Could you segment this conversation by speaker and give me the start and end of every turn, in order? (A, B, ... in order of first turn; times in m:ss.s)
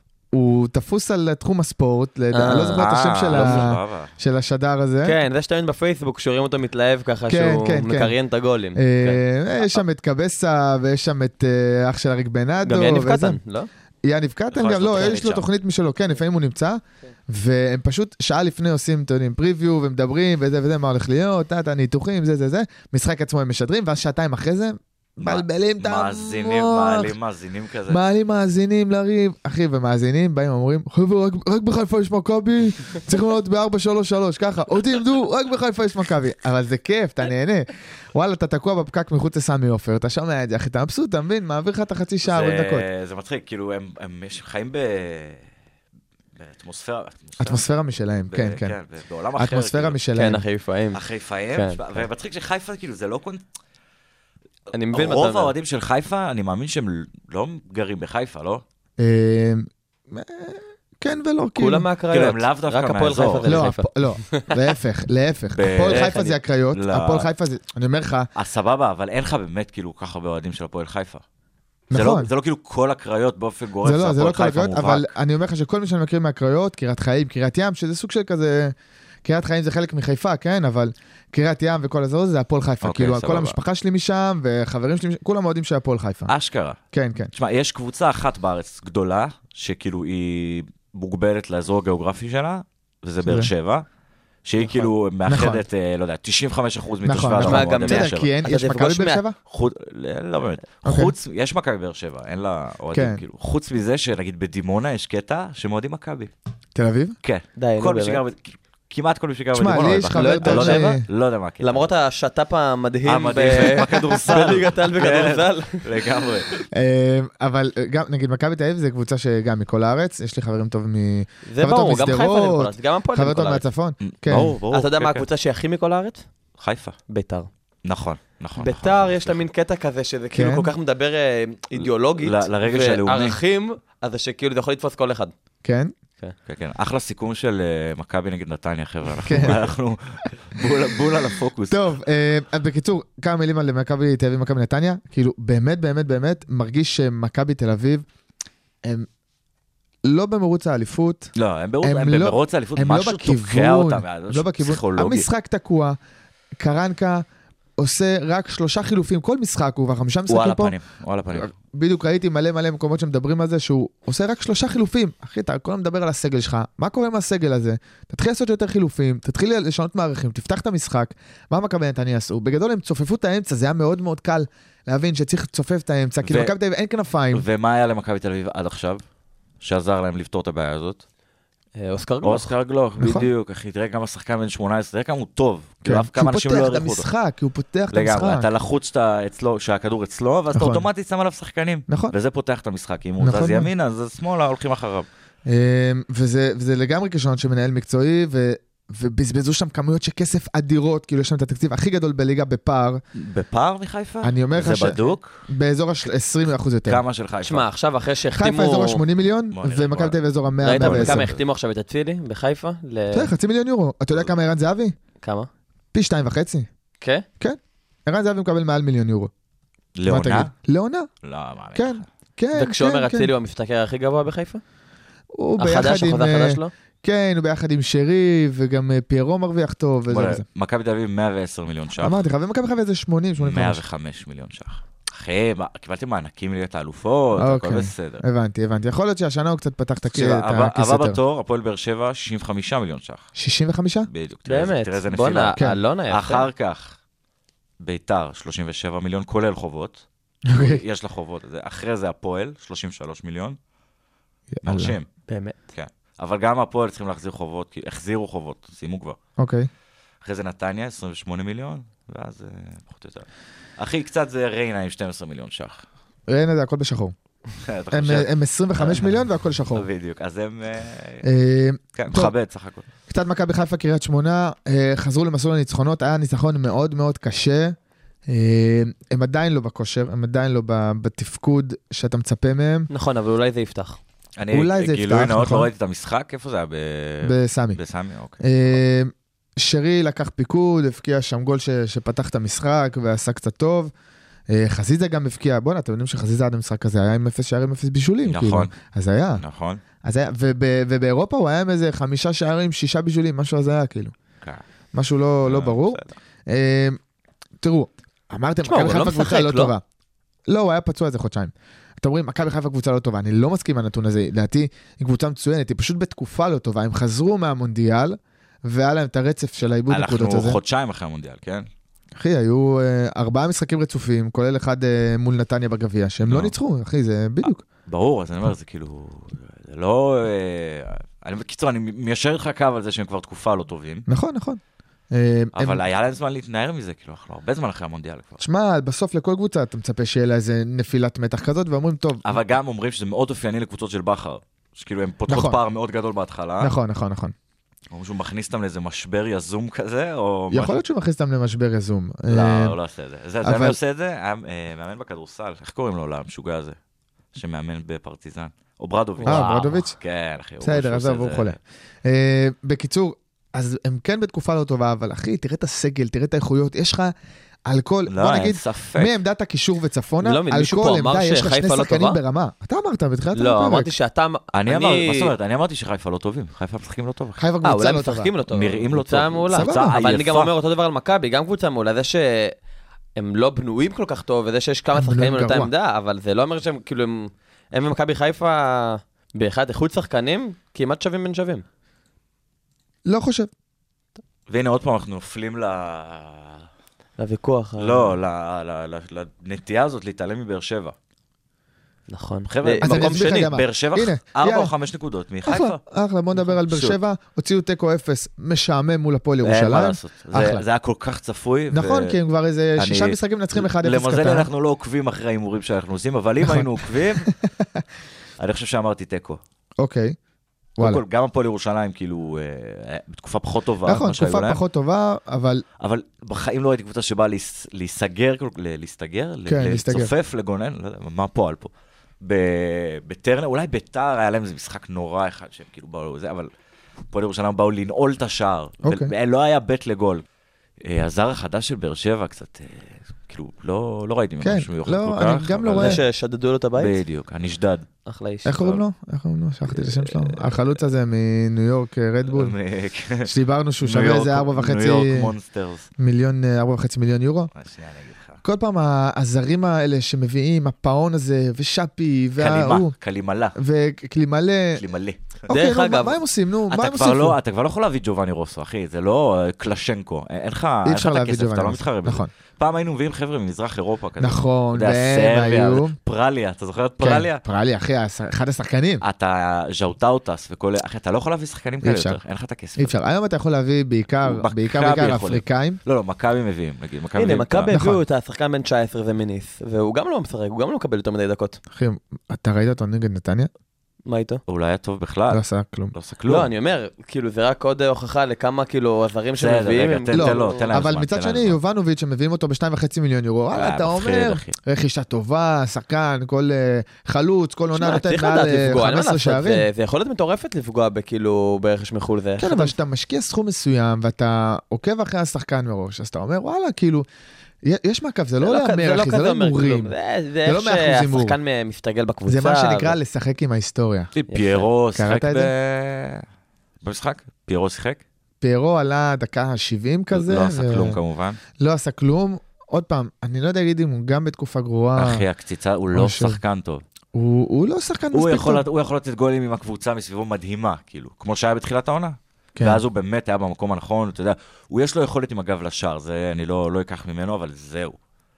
0:00.3-0:05.2 A
0:02.3-0:03.7 B
0:02.8-0:04.1 C
0:05.0-0:09.2 B
0:07.3-0:08.1 A
0:08.8-0:13.4 A
0:12.6-0:13.7 B
0:14.0-0:27.1 A
0:14.5-0:15.5 C
0:25.2-0:28.0 C
0:27.9-0:42.9 A
0:42.2-0:45.5 C
0:46.4-0:47.7 C
0:47.4-0:48.8 A
0:48.3-0:50.0 C
0:49.4-0:50.4 A
0:50.2-0:51.0 B
0:50.9-0:53.4 C
0:51.5-0:51.8 B
0:54.7-0:55.5 B
0:54.9-0:58.6 C
0:59.0-1:01.9 A
1:01.6-1:04.5 B
1:02.1-1:03.6 C
1:03.4-1:08.3 A
1:05.6-1:07.3 C
1:05.9-1:06.2 B
1:08.4-1:11.2 C
1:11.9-1:12.3 A
1:11.9-1:15.1 C
1:13.8-1:26.3 A
1:22.8-1:23.6 C
1:26.3-1:26.8 C
1:26.9-1:27.3 A
1:27.3-1:33.8 C
1:33.2-1:33.5 A
1:34.4-1:38.3 C
1:34.6-1:35.6 A
1:37.0-1:39.4 A
1:37.4-1:39.2 B
1:39.5-1:46.3 C
1:40.8-1:41.1 A
1:42.9-1:43.2 A
1:46.8-1:47.2 A
1:47.2-1:51.9 C
1:47.6-1:48.2 B
1:49.5-1:51.0 A
1:50.1-1:51.0 B
1:51.6-1:55.8 B
1:53.0-1:56.5 C
1:56.7-2:04.6 A
2:01.5-2:03.7 B
2:04.0-2:05.2 C
2:04.7-2:06.3 B
2:06.6-2:07.0 C
2:07.1-2:07.5 B
2:07.8-2:09.4 C
2:08.6-2:15.3 B
2:10.3-2:10.7 A
2:12.2-2:13.4 C
2:15.6-2:15.9 A
2:16.5-2:21.9 C
2:19.2-2:19.7 A
2:21.7-2:28.0 A
2:30.0-2:36.0 A
2:31.4-2:35.3 C
2:36.6-2:37.2 A
2:37.8-2:40.7 A
2:40.3-2:41.6 C
2:41.3-2:57.4 A
2:56.2-2:56.5 C
2:57.3-2:59.0 C
2:59.6-3:01.0 C
3:01.8-3:02.5 B
3:02.2-3:07.1 C
3:03.0-3:03.3 A
3:05.8-3:08.5 A
3:07.9-3:15.1 C
3:10.5-3:10.9 A
3:11.9-3:12.1 A
3:13.2-3:13.7 A
3:15.5-3:23.0 A
3:23.2-3:25.4 C
3:24.2-3:27.0 A
3:26.9-3:27.7 C
3:27.4-3:29.0 B
3:28.4-3:31.3 A
3:29.5-3:30.2 C
3:30.6-3:33.3 B
3:30.8-3:31.4 C
3:33.1-3:35.0 A
3:35.2-3:35.5 B
3:35.9-3:36.7 A
3:37.4-3:39.3 A
3:40.0-3:40.5 C
3:40.1-3:41.1 A
3:41.2-3:42.1 C
3:41.8-3:43.3 A
3:42.6-3:44.6 B
3:45.3-3:50.4 A
3:45.6-3:46.7 B
3:50.1-3:52.2 C
3:52.0-3:53.8 A
3:53.4-3:58.2 C
3:57.4-4:01.2 A
4:00.1-4:03.3 C
4:03.4-4:04.1 A
4:04.1-4:07.0 C
4:04.5-4:06.5 B
4:07.8-4:13.6 C
4:10.5-4:10.8 A
4:14.5-4:15.0 A
4:14.6-4:15.1 C
4:15.3-4:15.6 B
4:15.7-4:19.2 C
4:19.4-4:19.7 A
4:20.2-4:23.3 C
4:23.8-4:25.8 C
4:26.3-4:27.2 A
4:27.6-4:29.0 C
4:27.9-4:29.9 A
4:29.7-4:31.3 C
4:31.2-4:32.3 A
4:32.0-4:32.8 C
4:33.1-4:37.8 A
4:38.3-4:42.9 A
4:42.9-4:44.0 B
4:44.4-4:48.6 C
4:44.5-4:45.7 A
4:47.2-4:47.8 A
4:48.4-4:53.9 A
4:54.5-4:59.4 A
4:58.2-4:58.7 C
4:59.4-4:59.8 C
5:00.0-5:04.1 A
5:04.9-5:07.0 A
5:05.5-5:06.1 C
5:07.6-5:09.8 A
5:08.6-5:09.7 B
5:10.5-5:20.6 A
5:19.9-5:21.7 C
5:22.2-5:27.6 A
5:26.3-5:26.5 C
5:27.4-5:34.1 C
5:34.1-5:34.6 A
5:35.1-5:35.8 A
5:35.6-5:38.4 C
5:38.4-5:42.3 A
5:42.2-5:46.7 C
5:45.3-5:45.6 A
5:46.6-5:47.4 A
5:47.9-5:50.8 C
5:50.5-5:52.8 A
5:52.3-5:56.8 C
5:53.4-5:53.8 A
5:57.4-6:01.6 C
5:59.2-5:59.8 B
5:59.2-6:00.0 A
6:00.6-6:07.1 A
6:07.7-6:13.9 A
6:08.1-6:09.2 C
6:10.2-6:12.2 B
6:13.4-6:15.3 B
6:14.5-6:17.4 C
6:17.4-6:18.3 A
6:17.6-6:22.6 B
6:18.5-6:20.5 C
6:19.5-6:20.0 A
6:23.2-6:31.6 B
6:24.9-6:25.7 A
6:33.0-6:33.5 A
6:34.5-6:36.6 C
6:37.2-6:38.2 B
6:37.8-6:41.0 C
6:42.1-6:43.4 B
6:42.5-6:45.8 C
6:42.8-6:44.7 A
6:45.4-6:50.6 A
6:46.6-6:47.0 C
6:49.4-6:52.2 C
6:51.7-6:54.5 A
6:52.8-6:57.3 C
6:56.4-6:57.7 A
6:58.4-6:59.4 C
6:59.8-7:00.2 A
7:00.8-7:01.0 A
7:00.8-7:04.6 C
7:03.8-7:05.6 A
7:05.8-7:11.7 C
7:09.5-7:10.1 A
7:12.2-7:16.5 C
7:17.1-7:20.2 C
7:18.8-7:19.1 A
7:20.8-7:26.0 C
7:24.4-7:26.0 A
7:25.8-7:27.0 B
7:26.8-7:27.9 C
7:28.1-7:28.8 B
7:28.4-7:32.6 A
7:29.9-7:30.7 C
7:32.2-7:35.9 C
7:33.2-7:35.3 A
7:36.0-7:37.5 A
7:37.6-7:38.4 C
7:38.4-7:42.9 A
7:42.4-7:43.6 C
7:43.6-7:44.8 A
7:44.8-7:45.4 C
7:45.5-7:47.4 A
7:45.5-7:46.2 B
7:46.7-7:57.4 C
7:50.8-7:52.3 A
7:54.2-7:56.0 A
7:57.0-7:59.0 A
7:59.0-8:03.0 C
8:01.8-8:02.2 A
8:02.8-8:05.8 A
8:04.2-8:07.7 C
8:07.2-8:11.6 B
8:07.7-8:08.0 A
8:11.7-8:13.5 A
8:14.1-8:14.4 B
8:14.5-8:15.4 C
8:15.3-8:15.9 A
8:15.9-8:16.5 C
8:16.3-8:20.6 B
8:19.4-8:21.6 C
8:20.1-8:29.7 A
8:23.5-8:24.5 C
8:27.7-8:32.7 B
8:32.4-8:37.1 A
8:37.6-8:39.9 A
8:38.4-8:43.0 B
8:40.4-8:41.4 A
8:42.3-8:44.1 A
8:44.1-8:46.2 C
8:44.3-8:44.7 B
8:45.0-8:45.5 A
8:46.8-8:48.0 C
8:48.4-8:51.0 A
8:50.1-8:51.4 C
8:51.6-8:55.2 A
8:55.0-8:56.8 C
8:55.9-8:56.4 A
8:57.1-8:58.6 A
8:58.1-9:08.0 C
9:02.6-9:02.8 A